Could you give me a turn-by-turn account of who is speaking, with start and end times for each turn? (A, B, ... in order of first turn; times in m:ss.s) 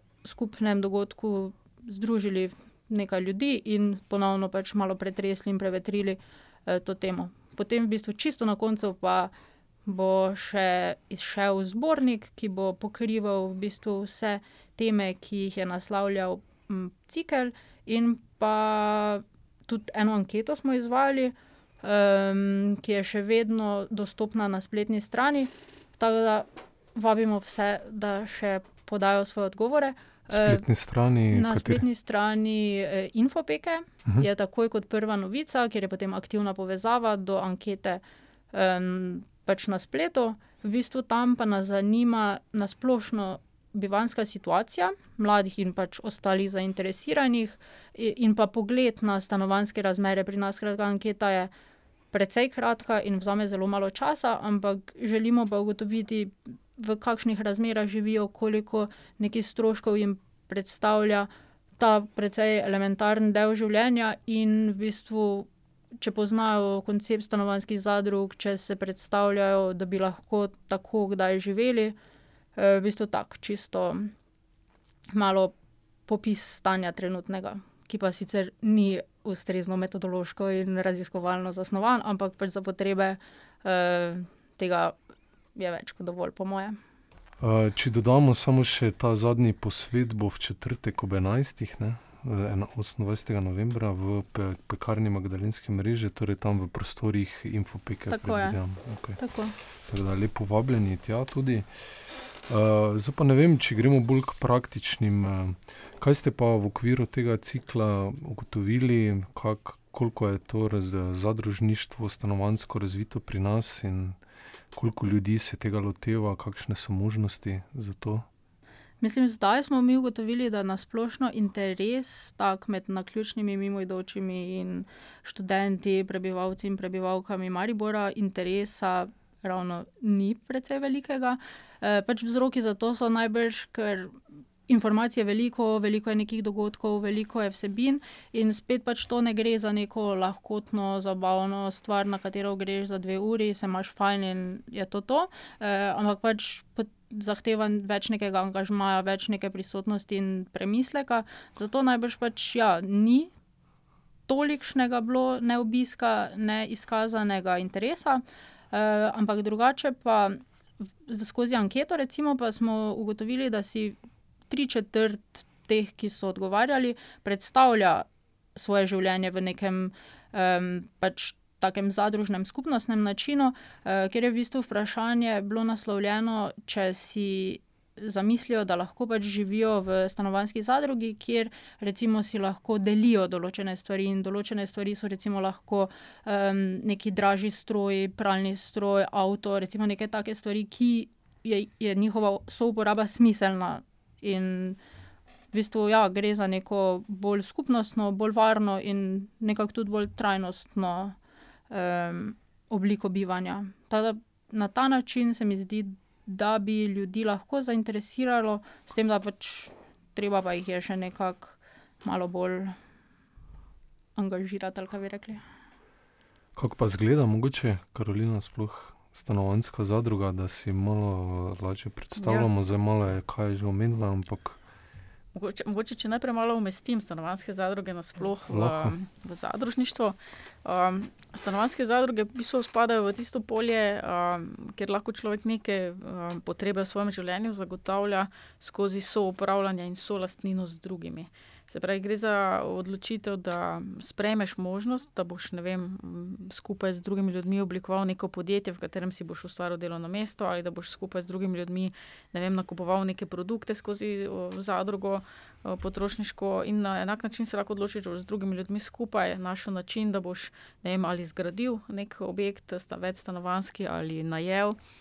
0:00.2-0:09.3 A
0:09.9-0:30.6 A
0:30.3-0:31.8 B
0:31.3-0:51.5 A
0:52.1-1:05.5 A
1:06.0-1:12.0 A
1:12.6-1:14.1 A
1:15.1-1:15.5 A
1:16.1-1:25.0 A
1:25.6-1:26.8 A
1:27.4-1:39.2 B
1:38.1-1:38.6 A
1:39.2-1:39.6 A
1:39.8-1:41.7 B
1:42.5-1:54.2 B
1:54.7-1:58.2 B
1:59.0-2:14.2 A
2:14.7-2:33.3 A
2:34.3-2:40.4 A
2:41.0-2:44.0 A
2:44.5-3:14.8 A
3:15.5-3:21.2 A
3:21.7-3:32.8 A
3:34.2-3:35.4 A
3:36.6-3:44.6 B
3:42.2-3:42.5 C
3:45.3-4:24.8 C
3:48.5-3:49.0 B